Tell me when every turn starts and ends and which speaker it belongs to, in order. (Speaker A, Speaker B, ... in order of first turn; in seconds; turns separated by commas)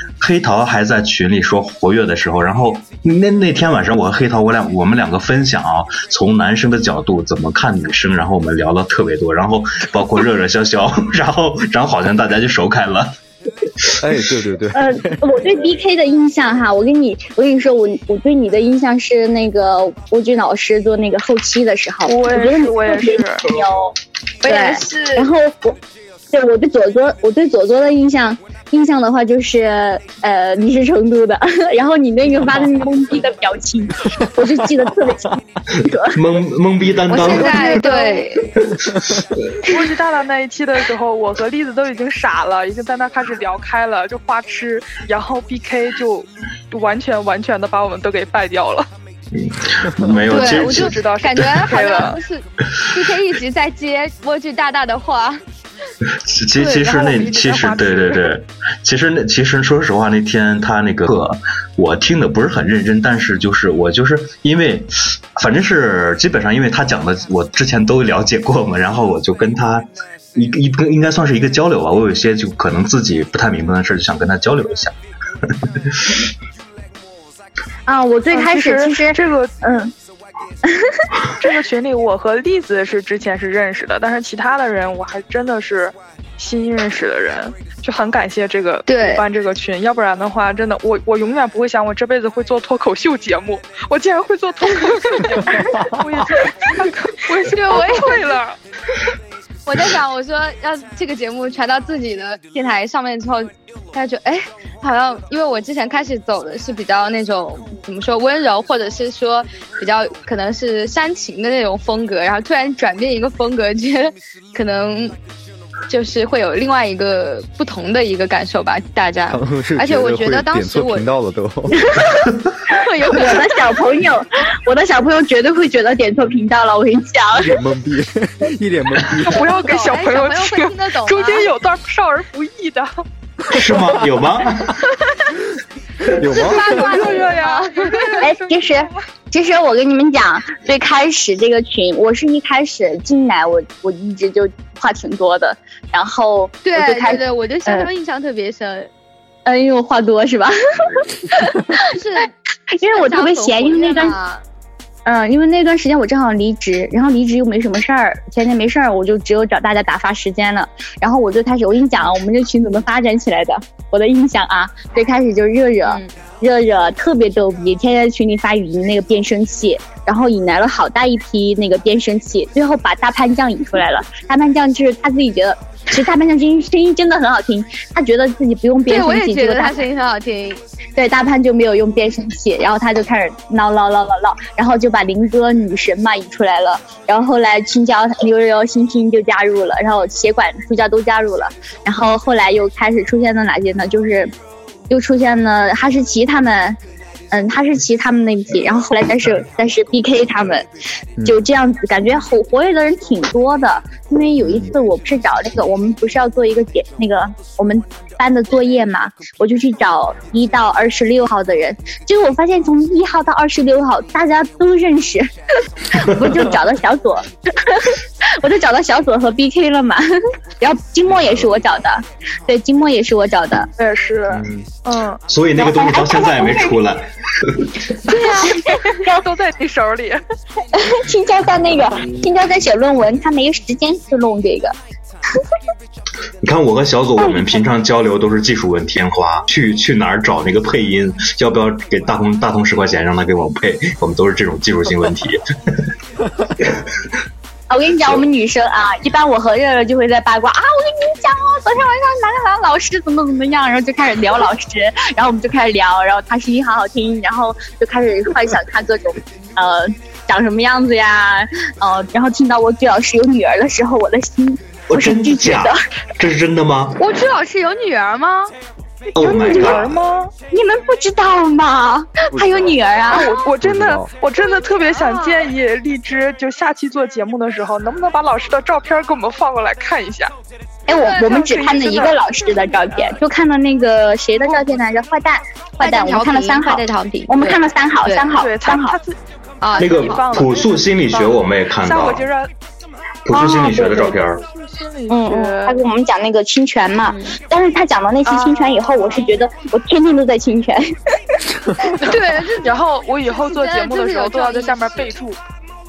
Speaker A: 0.2-13.1, Speaker B: 14.0-15.4, Speaker C: 14.7-23.9, Speaker D: 22.1-23.5, Speaker E: 24.4-25.3, Speaker C: 24.4-25.8, Speaker C: 26.3-36.2, Speaker A: 36.1-38.0, Speaker E: 37.1-38.5, Speaker D: 37.6-38.2, Speaker A: 38.6-39.7, Speaker D: 39.7-48.9, Speaker A: 49.3-51.7, Speaker D: 50.3-52.2, Speaker E: 50.3-55.4, Speaker A: 56.2-75.0, Speaker D: 56.6-58.4, Speaker A: 75.5-76.2, Speaker C: 77.9-79.9, Speaker D: 78.3-79.5, Speaker C: 80.7-81.0, Speaker D: 81.4-98.6, Speaker E: 88.9-89.2, Speaker B: 95.6-95.9, Speaker E: 97.4-98.3, Speaker E: 99.7-115.2, Speaker E: 115.9-121.1, Speaker B: 119.3-121.8, Speaker E: 122.7-123.7, Speaker C: 123.0-127.5, Speaker B: 127.3-129.5, Speaker D: 129.2-133.0, Speaker E: 129.4-131.5, Speaker A: 133.5-134.8, Speaker B: 136.1-137.1, Speaker E: 136.3-138.3, Speaker D: 136.3-139.1, Speaker C: 138.2-147.9, Speaker E: 146.7-148.9, Speaker C: 149.4-151.8, Speaker E: 151.7-152.3, Speaker C: 152.7-154.2, Speaker E: 152.8-154.4, Speaker C: 155.1-179.8, Speaker E: 165.8-166.1, Speaker E: 178.9-180.6, Speaker C: 181.0-194.3, Speaker C: 194.9-196.8, Speaker C: 197.3-200.7, Speaker C: 201.2-215.3, Speaker B: 204.4-204.7, Speaker C: 215.9-220.1, Speaker C: 220.6-223.7, Speaker B: 221.1-221.5, Speaker D: 223.8-225.2, Speaker B: 224.3-224.7, Speaker A: 225.3-227.7, Speaker C: 225.6-226.8, Speaker C: 228.1-229.3, Speaker D: 228.1-230.2, Speaker C: 230.7-234.8, Speaker A: 236.4-245.8, Speaker C: 247.7-265.8, Speaker A: 264.9-267.0, Speaker E: 267.0-268.5, Speaker A: 269.1-270.0, Speaker D: 269.1-270.3, Speaker C: 269.2-269.8, Speaker C: 270.5-273.4, Speaker B: 272.3-273.0, Speaker D: 273.1-280.3, Speaker B: 273.6-274.1, Speaker E: 274.4-275.5, Speaker C: 280.9-289.0, Speaker E: 280.9-281.5, Speaker D: 281.1-283.2, Speaker E: 285.8-288.3, Speaker D: 288.4-292.5, Speaker E: 289.6-290.2, Speaker A: 289.8-292.3, Speaker A: 293.3-294.4, Speaker C: 293.3-294.1, Speaker D: 293.6-295.8, Speaker C: 295.1-300.9, Speaker E: 297.1-297.4, Speaker D: 298.3-299.1, Speaker D: 302.0-305.4, Speaker E: 302.0-305.1